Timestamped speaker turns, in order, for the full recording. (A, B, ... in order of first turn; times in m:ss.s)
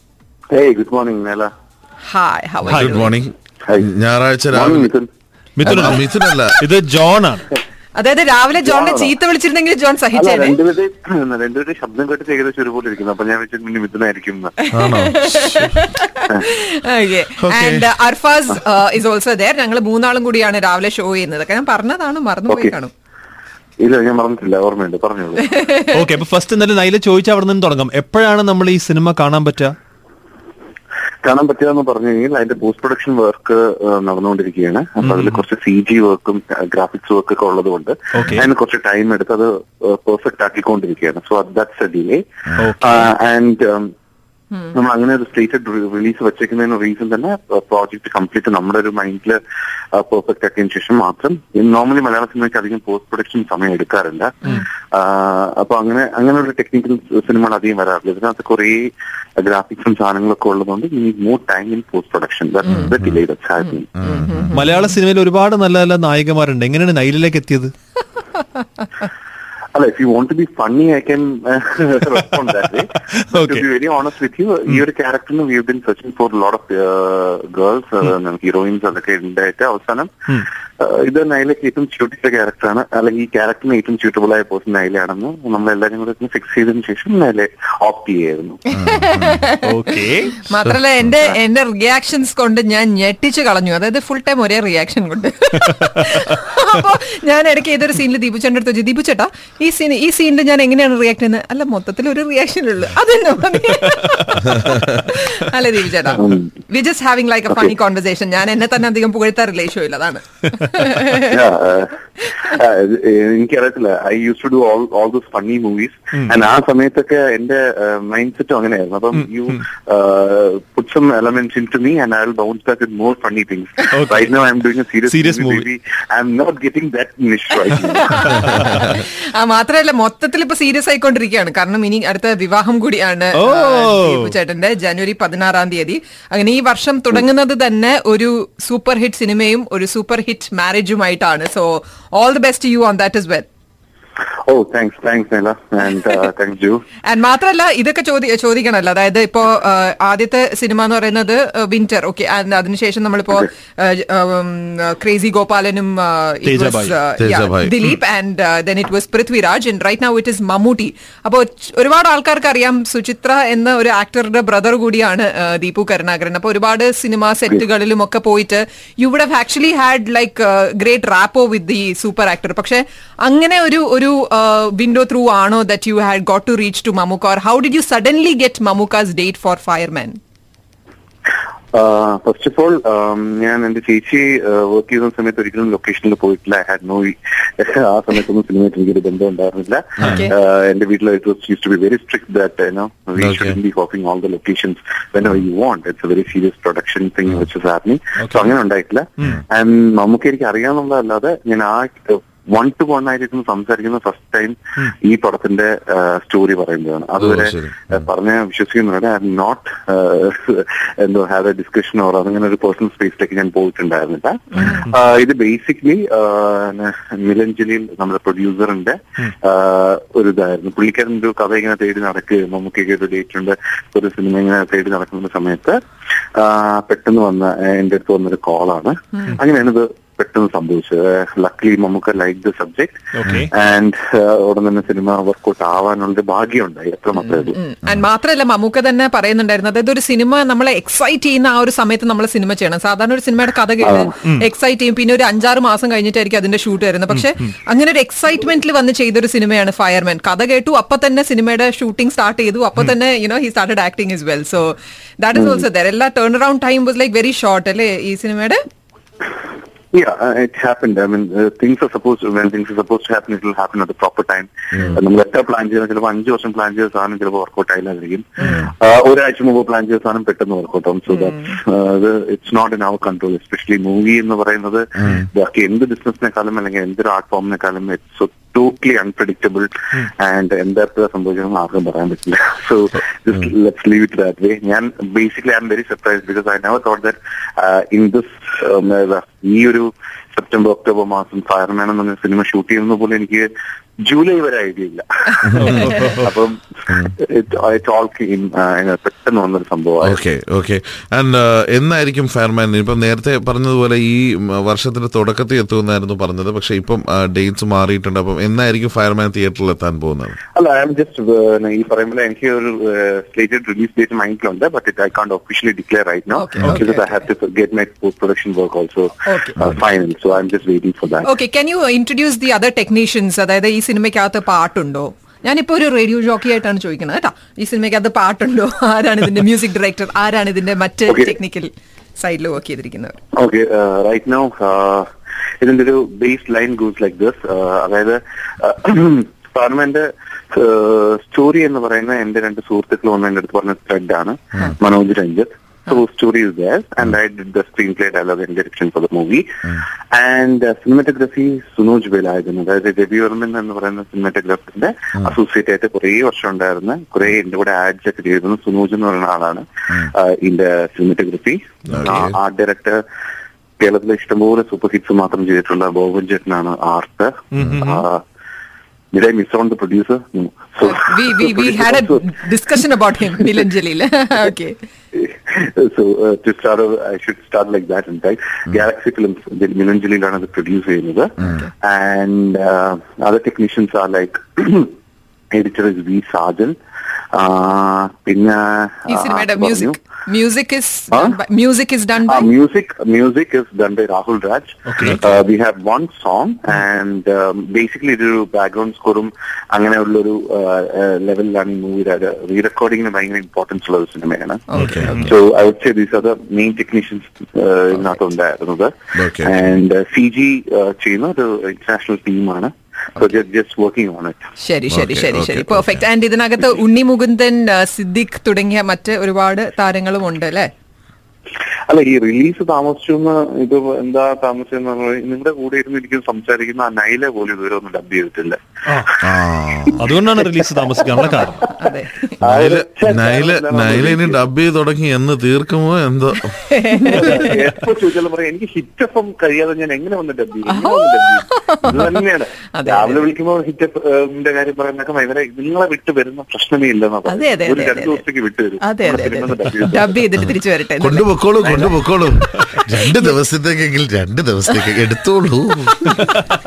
0:00.5-0:01.5 A
0:02.1-0:03.2 B
0:02.7-0:04.9 C
0:04.5-0:05.1 A
0:05.6-0:06.0 D
0:05.7-0:06.6 C
0:06.6-0:07.5 D
0:08.0-0:10.6 B
0:08.6-0:09.2 A
0:10.1-0:14.6 A
0:14.6-0:22.9 B
0:14.7-0:15.8 C
0:17.4-0:17.9 C
0:22.5-0:22.8 A
0:23.8-0:25.5 A
0:25.5-0:26.0 B
0:25.9-0:29.8 D
0:31.2-0:42.2 A
0:35.0-0:35.4 D
0:38.1-0:38.5 D
0:42.6-0:43.1 D
0:42.8-0:43.9 A
0:44.7-0:49.4 A
0:50.0-0:58.8 A
0:59.4-1:03.9 A
1:04.0-1:04.6 C
1:04.0-1:04.9 B
1:04.5-1:07.7 D
1:09.8-1:20.2 A
1:13.1-1:13.6 D
1:20.8-1:28.6 A
1:28.8-1:29.7 B
1:28.8-1:29.4 C
1:29.6-1:30.3 D
1:30.4-1:51.4 B
1:46.2-1:46.5 A
1:51.3-2:08.9 A
1:52.2-1:52.6 B
2:03.9-2:04.3 D
2:05.0-2:05.7 D
2:07.6-2:23.5 B
2:13.4-2:14.3 D
2:24.5-2:26.8 A
2:25.9-2:26.2 B
2:27.0-3:00.2 B
2:36.4-2:37.0 D
2:37.2-2:37.8 C
3:01.7-3:45.8 A
3:10.0-3:10.3 B
3:13.2-3:13.6 C
3:18.2-3:18.5 D
3:27.2-3:28.0 C
3:34.6-3:34.8 B
3:46.4-3:57.6 A
3:53.1-3:53.5 D
3:57.3-4:18.6 B
4:03.8-4:04.1 A
4:07.1-4:07.5 D
4:15.4-4:15.6 A
4:19.9-4:53.5 A
4:28.4-4:28.7 B
4:31.1-4:31.5 B
4:54.0-5:00.2 A
4:55.6-4:56.0 C
4:55.6-4:56.3 D
5:00.0-5:10.4 C
5:10.6-5:21.3 A
5:16.4-5:17.2 B
5:19.3-5:19.6 B
5:21.2-5:33.2 B
5:31.1-5:31.3 A
5:33.4-5:35.1 A
5:35.6-6:03.0 A
6:01.9-6:02.4 C
6:03.8-6:08.2 A
6:07.5-6:08.0 D
6:09.1-6:12.3 A
6:10.8-6:14.8 B
6:15.1-6:24.9 A
6:21.4-6:21.7 B
6:25.5-6:26.8 A
6:27.3-6:30.0 A
6:29.1-6:32.5 B
6:31.1-6:31.4 A
6:32.3-6:54.4 A
6:34.9-6:35.2 D
6:44.7-6:45.2 B
6:44.8-6:45.3 D
6:44.8-6:45.3 C
6:49.2-6:49.6 C
6:54.6-7:00.7 B
6:54.9-6:56.0 C
7:01.9-7:09.3 A
7:09.2-7:10.0 C
7:10.0-7:11.6 D
7:11.8-7:12.4 B
7:12.4-7:14.4 A
7:12.4-7:16.6 C
7:16.7-7:17.5 B
7:17.0-7:30.2 A
7:20.7-7:22.1 B
7:22.7-7:23.2 B
7:27.3-7:28.2 B
7:28.8-7:31.9 B
7:31.0-7:36.1 C
7:36.1-7:36.4 B